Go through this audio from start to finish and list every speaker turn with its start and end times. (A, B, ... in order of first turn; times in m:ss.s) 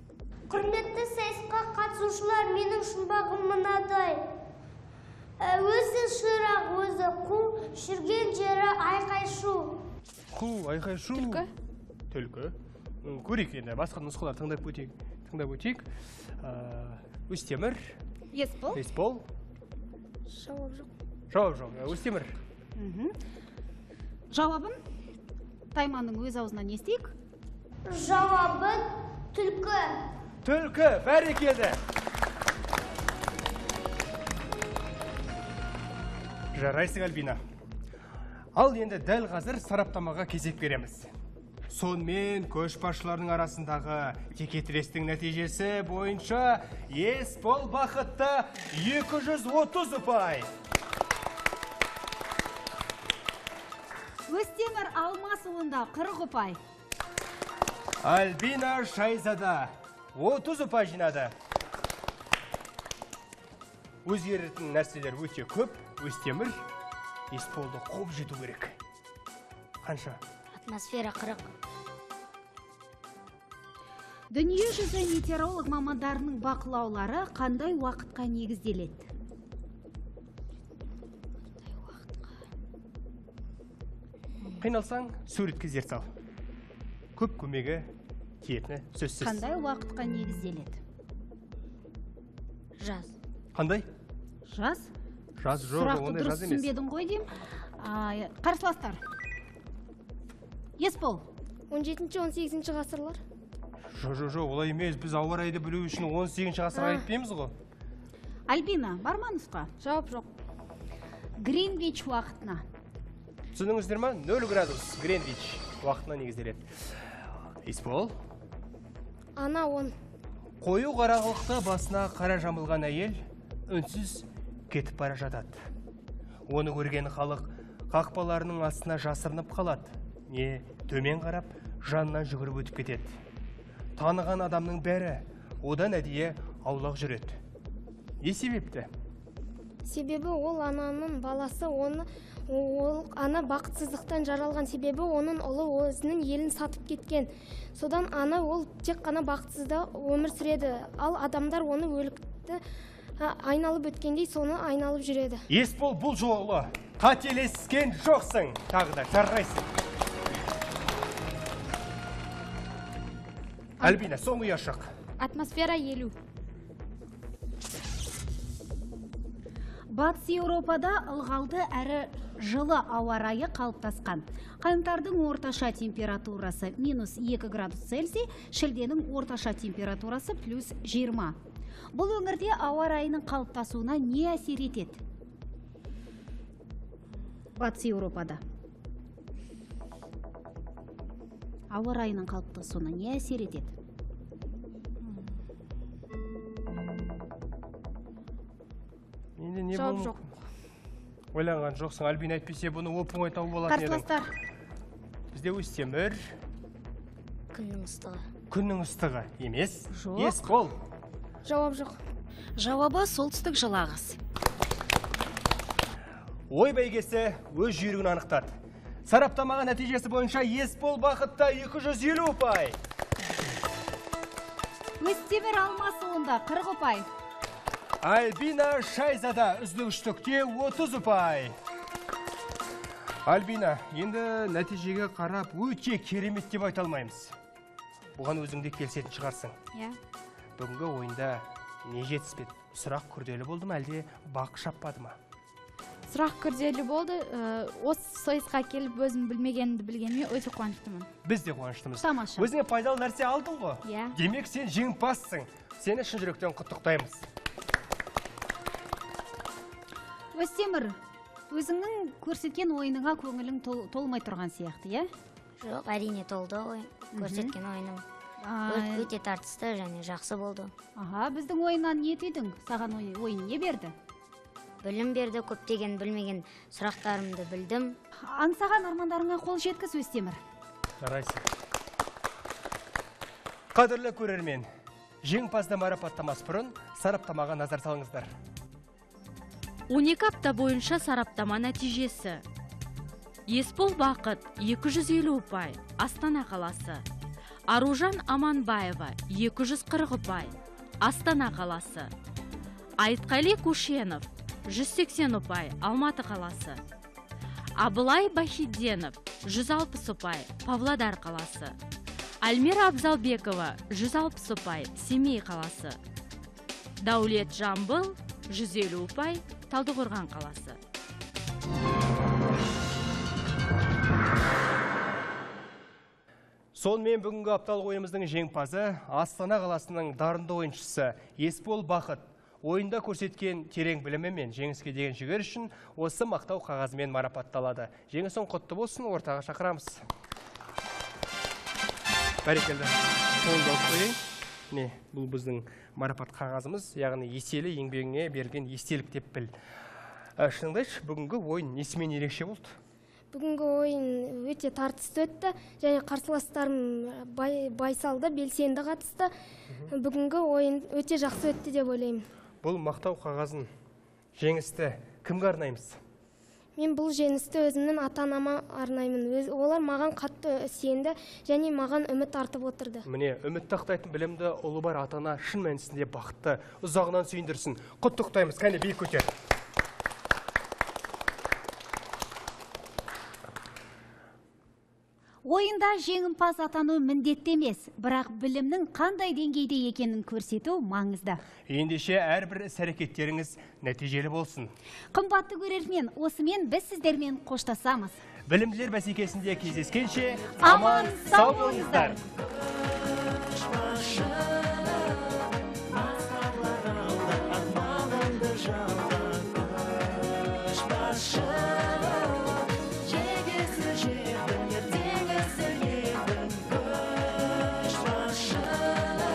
0:00.5-0:04.2 A
0:05.4-0:09.7 A
0:10.3-0:11.5 B
0:12.1-0:18.0 B
0:18.3-0:18.8 C
0:18.7-0:19.2 B
0:20.3-0:20.9 D
0:21.3-0:22.4 B
0:22.8-0:23.1 C
0:24.3-0:24.8 C
0:25.7-0:27.1 C
0:27.9-0:30.0 A
0:30.4-0:31.8 B
0:36.5-0:37.4 B
0:38.5-0:41.1 B
0:41.7-0:50.5 B
0:54.3-0:56.6 C
0:58.0-1:01.3 B
1:04.0-1:06.6 B
1:07.3-1:08.8 B
1:09.8-1:10.2 B
1:10.5-1:11.5 E
1:14.3-1:19.1 C
1:24.6-1:26.1 B
1:27.2-1:27.9 B
1:28.4-1:29.4 B
1:29.2-1:30.8 C
1:32.8-1:33.1 E
1:33.6-1:33.9 B
1:34.5-1:34.9 C
1:35.4-1:36.7 B
1:35.6-1:39.0 C
1:40.8-1:41.3 C
1:41.7-1:43.2 D
1:43.9-1:47.6 B
1:46.8-1:47.0 D
1:48.5-1:49.7 C
1:49.8-1:50.3 F
1:51.4-1:52.6 C
1:53.5-1:57.1 B
1:57.6-1:58.1 B
1:59.4-2:00.0 D
2:00.6-2:05.7 B
2:06.5-2:13.2 B
2:14.0-2:17.4 B
2:18.2-2:18.9 B
2:19.8-2:32.6 D
2:33.2-2:35.5 D
2:35.5-2:39.7 B
2:43.8-2:44.9 B
2:45.2-2:46.1 F
2:49.9-3:01.4 C
3:01.9-3:05.0 C
3:07.6-3:08.4 C
3:11.7-3:13.7 C
3:19.4-3:20.2 B
3:21.3-3:24.1 B
3:23.7-3:24.3 C
3:25.3-3:26.3 B
3:27.5-3:28.2 E
3:28.5-3:30.8 B
3:29.9-3:30.4 C
3:31.5-3:32.0 D
3:32.6-3:34.2 C
3:36.5-3:42.8 B
3:45.0-3:47.1 C
3:48.0-3:51.6 B
3:53.2-3:57.4 B
3:58.2-3:59.6 B
4:00.6-4:05.2 B
4:06.1-4:11.1 F
4:11.2-4:17.3 B
4:12.0-4:12.5 C
4:13.8-4:14.2 F
4:20.4-4:21.0 C
4:21.5-4:25.1 C
4:25.6-4:28.0 E
4:27.2-4:27.6 C
4:28.4-4:29.1 C
4:28.7-4:30.7 E
4:31.0-4:34.0 C
4:34.8-4:38.0 E
4:38.2-4:40.4 C
4:41.0-4:41.5 B
4:43.7-4:44.7 B
4:45.2-4:48.3 B
4:49.9-4:52.4 G
4:53.5-4:57.0 G
4:57.7-5:02.1 G
5:03.0-5:06.8 G
5:07.8-5:11.8 G
5:12.4-5:16.0 G
5:17.0-5:20.8 G
5:26.7-5:40.0 B
5:42.4-5:44.2 B
5:44.7-5:49.5 B
5:50.4-5:52.8 B
5:53.3-5:59.3 D
5:59.9-6:02.3 D
6:02.6-6:03.7 B
6:04.4-6:06.0 B
6:06.8-6:13.1 D
6:13.0-6:19.3 B
6:25.4-6:31.4 C
6:31.7-6:34.7 B
6:35.1-6:38.2 C
6:38.5-6:42.2 B
6:40.6-6:42.2 C
6:46.4-6:49.0 C
6:50.9-6:51.6 C
6:53.3-6:56.5 C